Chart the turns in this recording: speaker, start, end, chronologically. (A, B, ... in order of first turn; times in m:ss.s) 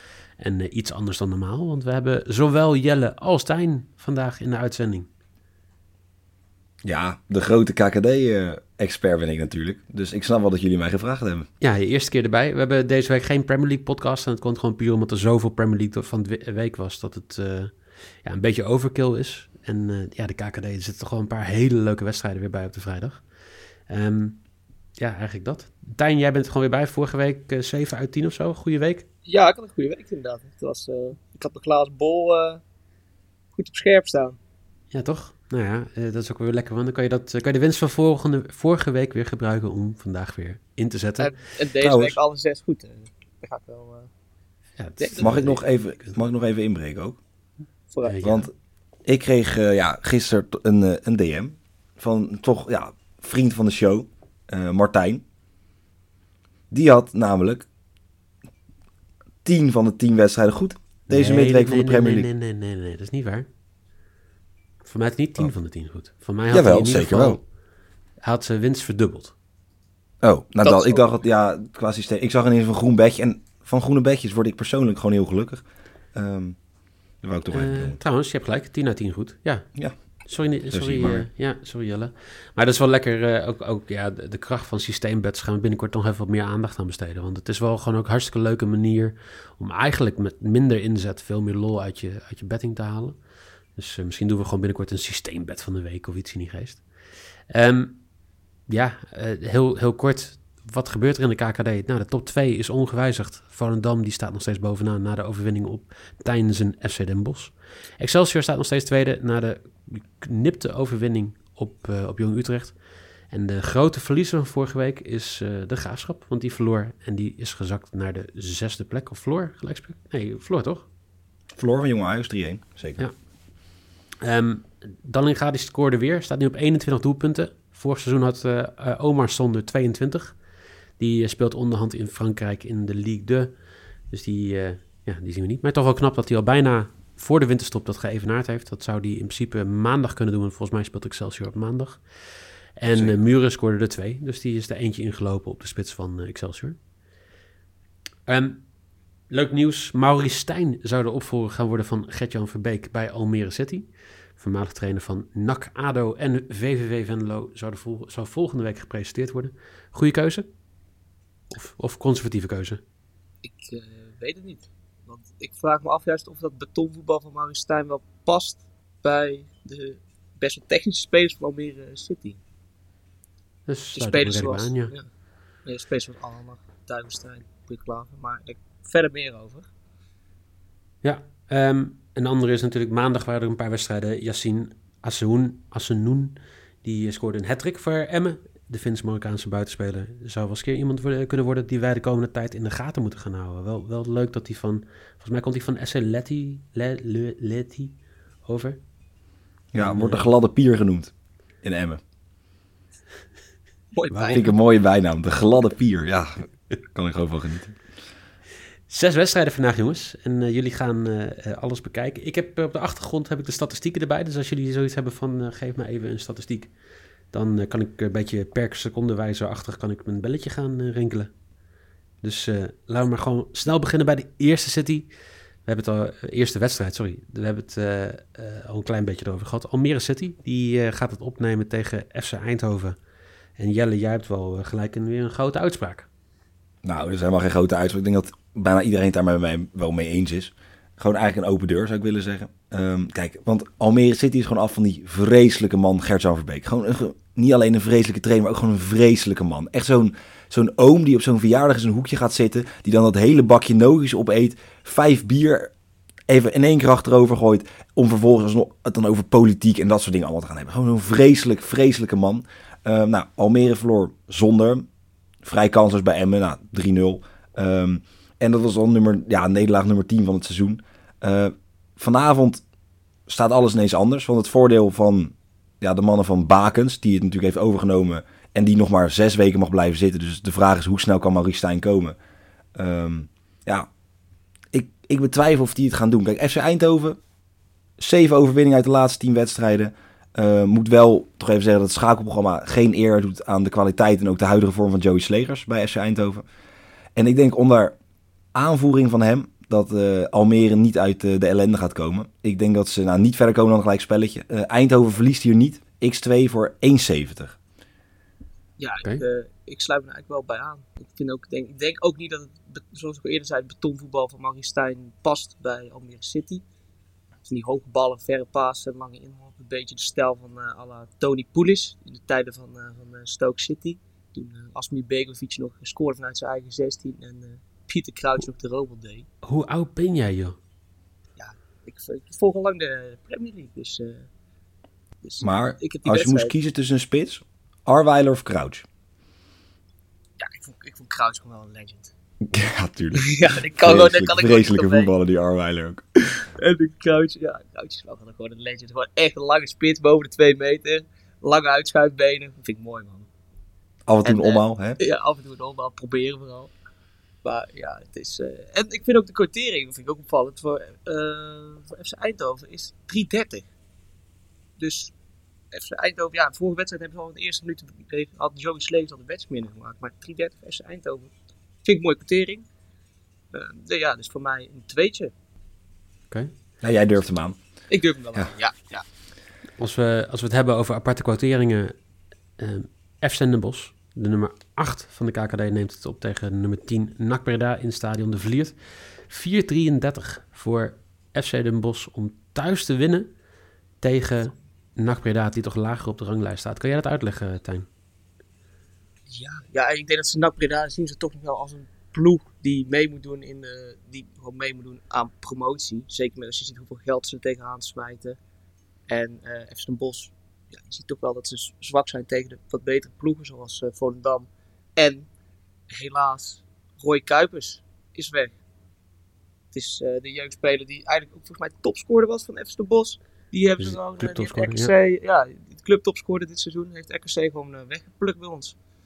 0:00.4-0:05.1 A
0:06.8-0:11.5 B
0:11.6-0:23.3 A
0:23.9-0:24.4 A
0:25.0-0:29.0 A
0:29.2-0:32.6 C
0:33.5-0:34.4 C
0:34.9-0:41.3 A
0:41.2-0:44.1 C
0:41.8-0:42.2 B
0:44.8-0:46.2 A
0:45.0-0:45.6 C
0:45.2-0:47.2 B
0:47.9-0:48.3 C
0:48.0-0:48.5 A
0:48.2-0:48.5 B
0:49.0-0:55.2 B
0:56.7-0:57.7 B
0:59.4-1:02.3 B
1:01.1-1:03.5 A
1:04.8-1:07.5 A
1:06.5-1:07.4 B
1:08.2-1:09.3 A
1:10.2-1:16.6 B
1:10.6-1:11.0 C
1:17.2-1:18.0 B
1:17.5-1:36.9 A
1:19.7-1:21.3 B
1:37.5-1:38.1 A
1:38.7-2:00.9 A
2:01.5-2:03.1 B
2:03.0-2:26.8 A
2:22.9-2:23.2 B
2:28.3-2:28.7 A
2:29.3-2:40.5 A
2:41.5-2:42.8 A
2:43.4-2:52.4 C
2:53.7-2:54.9 A
2:53.9-2:55.1 C
2:55.6-2:59.7 C
3:01.0-3:18.8 A
3:19.7-3:22.0 B
3:19.8-3:20.3 A
3:23.9-3:24.5 C
3:24.1-3:24.4 A
3:24.3-3:27.8 B
3:28.9-3:36.7 A
3:37.3-3:41.3 A
3:42.2-3:45.1 A
3:45.6-3:53.0 A
3:53.6-3:56.1 A
3:56.8-4:15.7 B
4:16.3-4:24.8 B
4:25.4-4:32.6 B
4:33.3-4:42.2 B
4:42.7-4:43.9 B
4:44.7-4:47.2 B
4:48.0-4:56.4 B
4:57.2-4:57.9 B
4:58.5-5:07.6 B
5:08.8-5:16.6 C
5:17.4-5:29.3 C
5:29.4-5:30.6 A
5:31.4-5:34.3 C
5:35.2-5:36.5 C
5:35.4-5:38.8 B
5:40.4-5:42.1 C
5:42.5-5:46.0 B
5:43.2-5:45.1 C
5:46.4-5:53.3 C
5:54.1-5:55.0 B
5:54.2-5:56.7 C
5:57.4-6:03.7 C
6:04.8-6:05.1 C
6:05.7-6:11.3 C
6:11.8-6:12.6 C
6:13.5-6:15.3 C
6:16.8-6:17.6 B
6:17.9-6:19.0 C
6:19.8-6:22.0 A
6:22.6-6:33.3 A
6:34.0-6:37.9 A
6:39.3-6:48.4 C
6:49.1-6:55.3 C
6:55.9-6:58.6 C
6:59.7-7:08.8 C
7:03.8-7:04.9 A